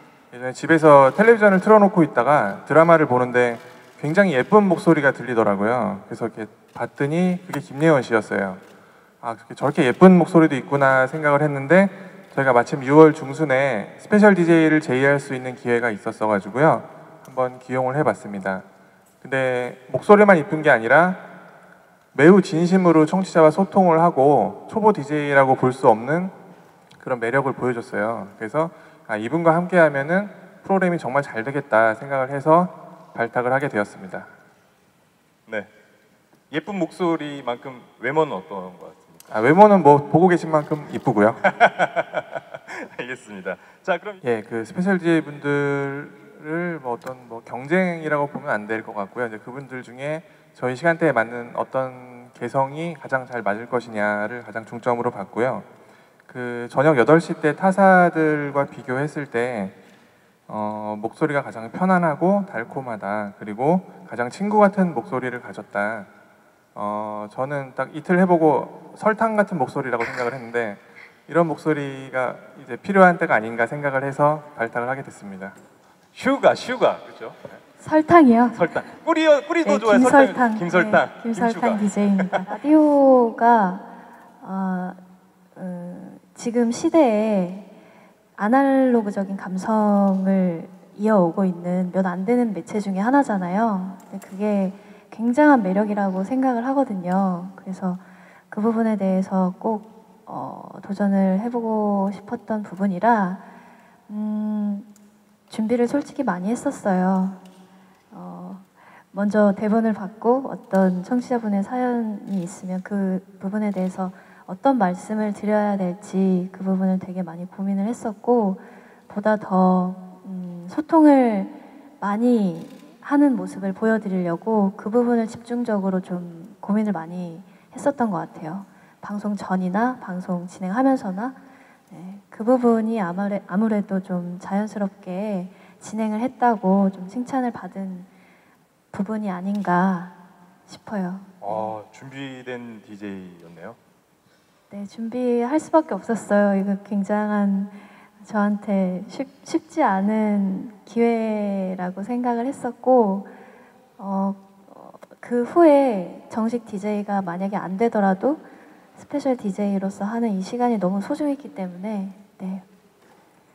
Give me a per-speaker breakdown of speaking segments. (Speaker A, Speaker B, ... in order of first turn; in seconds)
Speaker A: 0.3-8.6, 9.2-18.6, 19.2-21.2, 22.1-26.3, 27.0-34.3, 39.3-41.4, 44.2-55.7, 56.3-59.8, 60.5-66.1, 66.7-75.5
Speaker B: 36.5-39.2, 41.4-44.2, 76.1-77.6, 78.5-82.5, 141.4-143.8
Speaker C: 77.8-78.6, 79.6-83.9, 84.4-85.0, 85.5-87.7, 88.3-103.4, 104.1-104.9, 105.5-107.4, 108.1-131.4, 131.9-138.1, 138.9-140.1, 140.7-141.7, 144.7-153.3, 154.0-158.4, 158.9-162.6